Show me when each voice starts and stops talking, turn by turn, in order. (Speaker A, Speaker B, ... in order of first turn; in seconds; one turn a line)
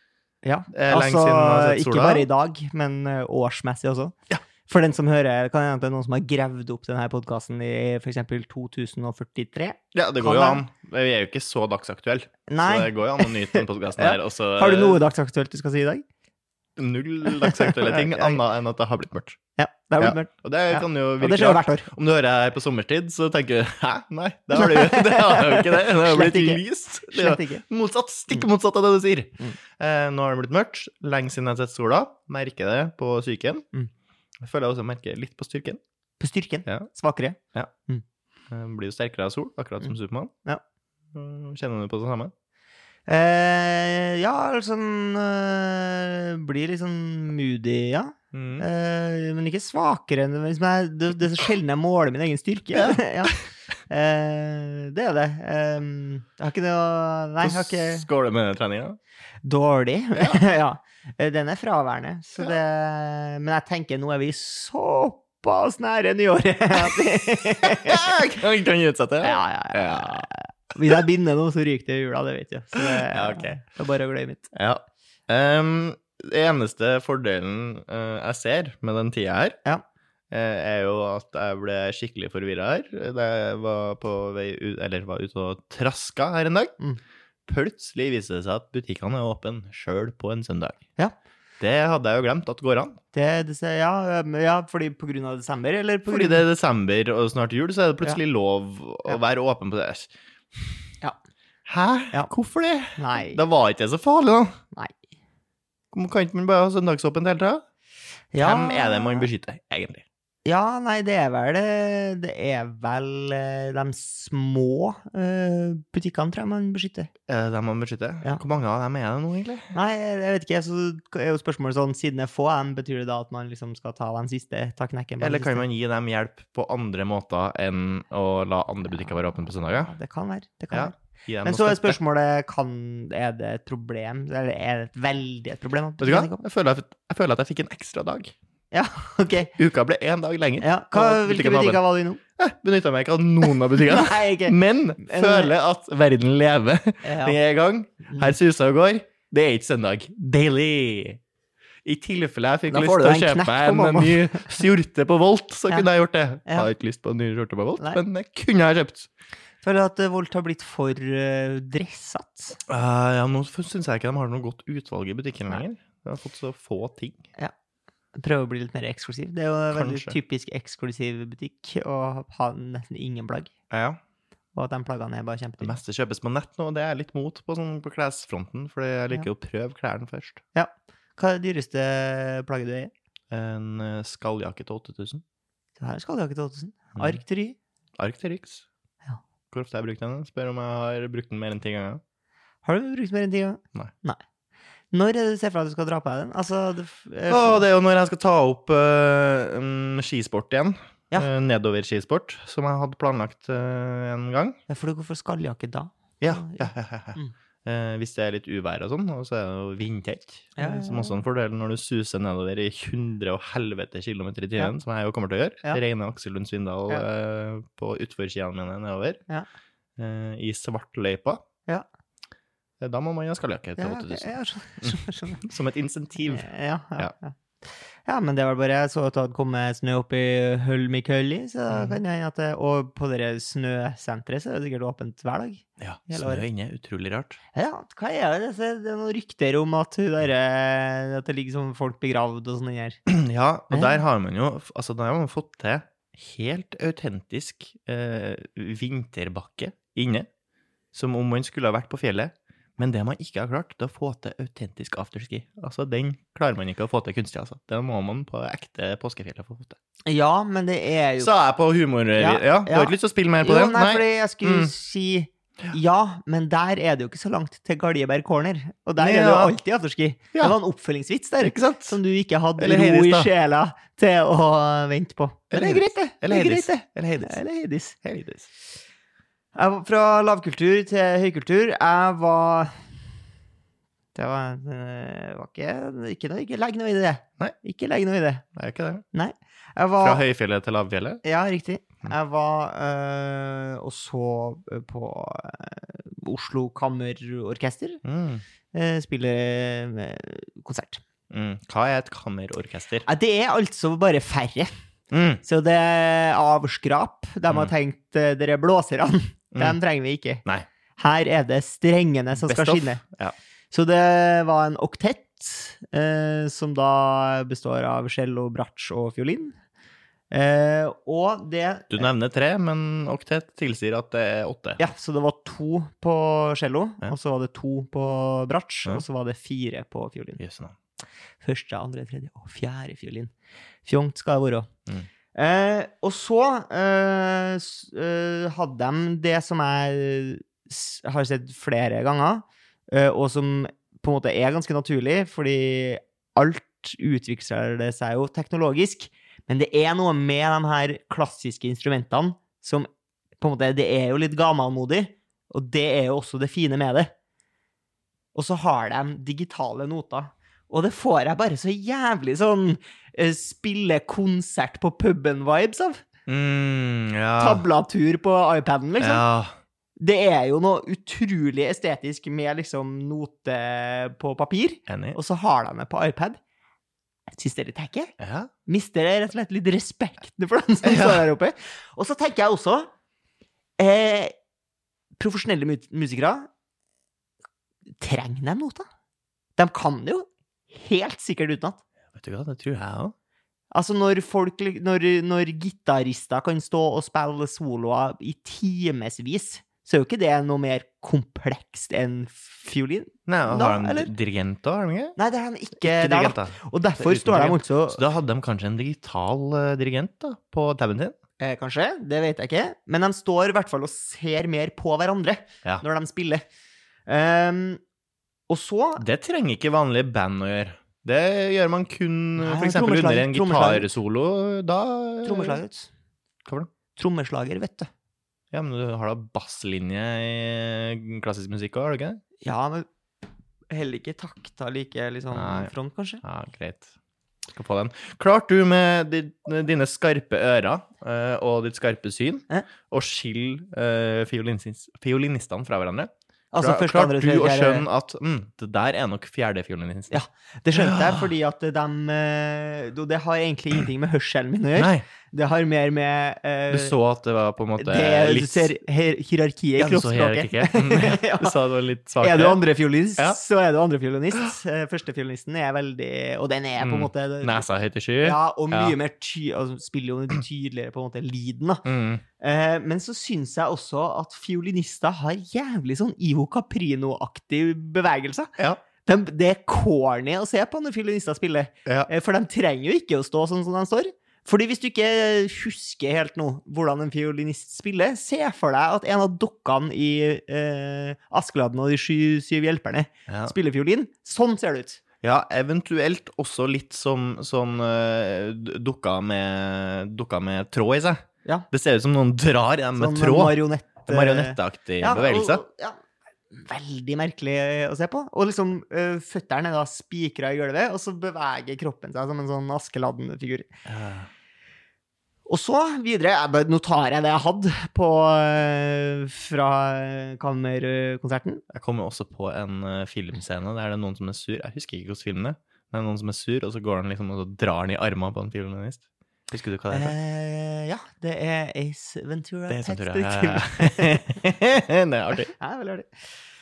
Speaker A: 0.4-4.2
Speaker B: 0.7-2.3
Speaker A: 4.7-10.6
Speaker B: 9.9-15.0
Speaker A: 12.5-16.0
Speaker B: 16.8-19.4
Speaker A: 17.4-18.4
Speaker A: 19.6-21.9
Speaker B: 20.0-33.6
Speaker A: 24.5-27.7
Speaker B: 34.4-35.8
Speaker A: 36.2-38.0
Speaker B: 38.5-40.3
Speaker B: 41.1-42.3
Speaker A: 43.1-53.4
Speaker B: 48.3-48.7
Speaker B: 52.8-53.4
Speaker A: 53.9-58.0
Speaker B: 57.4-59.0
Speaker A: 59.4-68.2
Speaker B: 67.6-70.3
Speaker A: 69.2-74.5
Speaker B: 72.8-73.6
Speaker B: 74.5-79.6
Speaker B: 80.3-86.7
Speaker B: 87.5-90.8
Speaker B: 91.6-93.0
Speaker A: 93.1-96.5
Speaker B: 96.1-100.8
Speaker B: 101.7-104.5
Speaker A: 103.0-103.4
Speaker B: 105.9-107.6
Speaker A: 108.3-109.3
Speaker B: 108.4-110.0
Speaker A: 110.5-117.1
Speaker B: 117.3-119.7
Speaker A: 119.7-125.7
Speaker B: 125.2-129.9
Speaker A: 129.9-136.4
Speaker B: 130.7-132.0
Speaker B: 136.0-138.3
Speaker A: 138.7-139.5
Speaker B: 139.6-141.8
Speaker A: 140.6-142.2
Speaker B: 142.4-151.2
Speaker A: 143.5-145.5
Speaker A: 147.0-147.4
Speaker A: 148.1-148.3
Speaker B: 151.8-159.1
Speaker A: 152.7-154.6
Speaker A: 159.6-162.6
Speaker B: 162.7-167.2
Speaker A: 168.2-173.5
Speaker B: 169.7-170.2
Speaker B: 173.7-174.0
Speaker A: 174.6-175.8
Speaker B: 175.6-180.4
Speaker A: 180.6-182.9
Speaker B: 183.3-185.2
Speaker A: 185.8-187.6
Speaker B: 188.0-188.7
Speaker B: 189.5-192.0
Speaker A: 192.6-194.2
Speaker A: 194.9-197.7
Speaker B: 197.3-204.6
Speaker A: 204.7-207.3
Speaker B: 206.2-219.2
Speaker A: 210.6-211.2
Speaker B: 220.0-221.4
Speaker B: 222.8-227.1
Speaker A: 223.8-225.4
Speaker A: 226.3-227.4
Speaker A: 228.1-236.4
Speaker B: 231.7-232.0
Speaker B: 235.8-237.4
Speaker A: 237.6-243.0
Speaker B: 243.1-250.3
Speaker A: 243.7-244.0
Speaker B: 250.9-259.8
Speaker A: 260.1-261.3
Speaker B: 261.2-264.7
Speaker A: 262.2-278.0
Speaker B: 269.0-269.6
Speaker B: 271.4-272.0
Speaker B: 272.6-273.3
Speaker B: 275.5-277.4
Speaker B: 278.0-278.5
Speaker A: 279.6-282.7
Speaker A: 284.1-288.4
Speaker B: 288.6-289.1
Speaker A: 289.1-290.2
Speaker B: 290.0-291.2
Speaker A: 291.2-298.0
Speaker B: 298.0-298.4
Speaker A: 298.7-301.0
Speaker B: 301.3-303.1
Speaker A: 303.1-304.7
Speaker B: 305.1-305.4
Speaker A: 305.4-310.4
Speaker A: 311.0-313.0
Speaker B: 312.4-313.4
Speaker A: 313.7-319.6
Speaker A: 320.3-322.1
Speaker B: 321.9-324.8
Speaker A: 324.8-330.4
Speaker B: 330.4-330.8
Speaker A: 331.4-333.3
Speaker A: 333.9-334.7
Speaker A: 335.3-352.9
Speaker A: 353.4-357.1
Speaker A: 358.3-366.0
Speaker B: 366.3-367.6
Speaker A: 367.4-369.2
Speaker B: 369.0-369.6
Speaker A: 370.0-376.4
Speaker B: 374.9-375.2
Speaker A: 377.3-378.1
Speaker B: 378.2-378.5
Speaker A: 378.7-382.9
Speaker B: 380.8-381.2
Speaker A: 383.8-384.3
Speaker A: 385.2-386.5
Speaker A: 388.0-388.9
Speaker A: 389.6-391.8
Speaker B: 392.1-393.1
Speaker A: 393.7-404.1
Speaker B: 403.3-405.2
Speaker A: 405.2-408.0
Speaker B: 405.8-411.1
Speaker A: 411.4-416.4
Speaker A: 417.1-417.8
Speaker A: 418.5-419.0
Speaker B: 419.0-425.6
Speaker A: 422.4-423.9
Speaker A: 425.2-425.9
Speaker B: 426.4-426.7
Speaker A: 426.9-427.9
Speaker B: 428.5-432.2
Speaker A: 432.4-432.9
Speaker A: 433.7-436.2
Speaker B: 435.3-436.9
Speaker B: 437.5-450.2
Speaker A: 446.5-447.9
Speaker A: 450.1-456.9
Speaker B: 450.7-451.3
Speaker B: 454.8-455.1
Speaker B: 456.7-458.7
Speaker A: 457.8-461.6
Speaker B: 459.8-462.6
Speaker A: 462.2-467.7
Speaker B: 466.8-469.0
Speaker A: 468.2-471.9
Speaker B: 471.9-472.2
Speaker A: 472.4-478.5
Speaker A: 479.0-495.0
Speaker B: 493.3-493.5
Speaker B: 495.2-501.2
Speaker B: 501.7-505.6
Speaker A: 503.0-506.0
Speaker A: 506.5-513.7
Speaker B: 513.9-514.3
Speaker A: 515.5-521.6
Speaker B: 521.7-530.1
Speaker A: 529.9-534.3
Speaker B: 532.7-535.5
Speaker A: 535.6-536.1